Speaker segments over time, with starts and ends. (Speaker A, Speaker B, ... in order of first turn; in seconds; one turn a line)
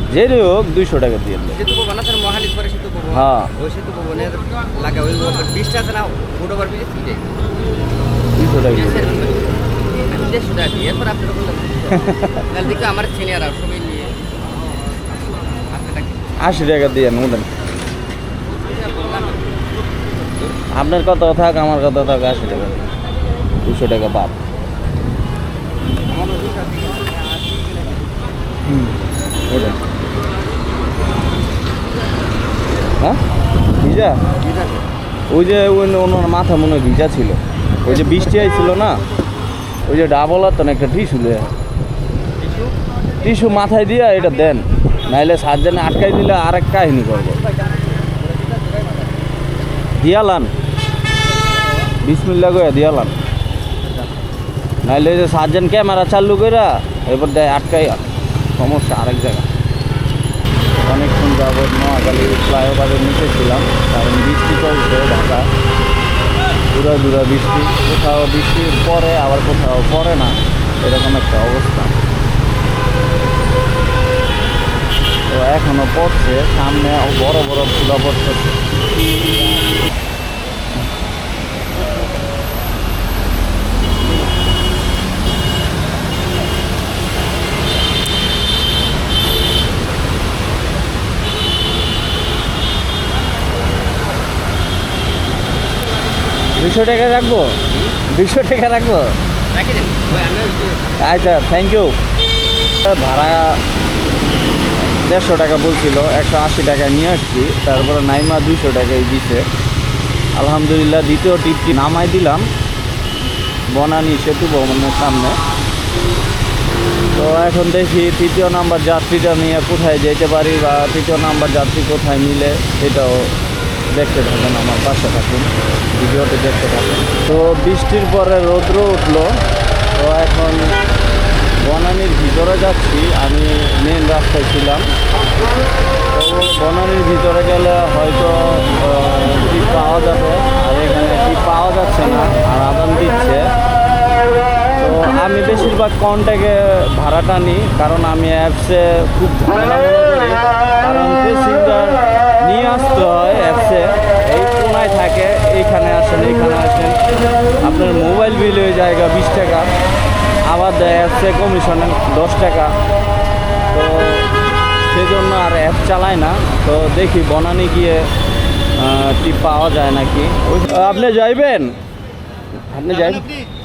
Speaker A: 0.1-1.6
Speaker B: 1.5-7.3
Speaker A: 3.1-3.5
Speaker A: 8.3-9.2
Speaker B: 8.7-14.2
Speaker A: 11.9-12.4
Speaker B: 15.5-16.4
Speaker A: 16.4-17.5
Speaker B: 18.4-19.6
Speaker B: 20.3-20.6
Speaker A: 20.7-22.9
Speaker A: 23.6-24.4
Speaker B: 26.1-27.9
Speaker A: 28.6-28.9
Speaker A: 29.5-29.8
Speaker A: 33.8-34.2
Speaker B: 34.4-34.8
Speaker A: 35.3-39.0
Speaker B: 37.9-38.2
Speaker A: 39.9-41.5
Speaker B: 42.4-42.7
Speaker A: 43.2-47.4
Speaker A: 50.0-50.5
Speaker A: 52.0-53.1
Speaker A: 54.8-58.0
Speaker A: 58.6-59.5
Speaker A: 60.8-65.5
Speaker A: 66.7-72.0
Speaker A: 75.3-78.6
Speaker A: 96.5-99.2
Speaker B: 99.5-101.1
Speaker A: 101.0-102.0
Speaker A: 102.8-103.6
Speaker A: 104.8-109.5
Speaker A: 110.3-112.5
Speaker A: 113.7-115.4
Speaker A: 117.1-123.3
Speaker A: 123.9-129.4
Speaker A: 129.9-130.8
Speaker A: 131.6-134.9
Speaker A: 136.1-143.4
Speaker A: 144.7-157.0
Speaker A: 157.6-159.7
Speaker A: 160.5-162.7
Speaker A: 163.7-164.3
Speaker A: 164.9-168.1
Speaker A: 168.8-171.8
Speaker A: 172.7-173.2
Speaker B: 172.9-173.5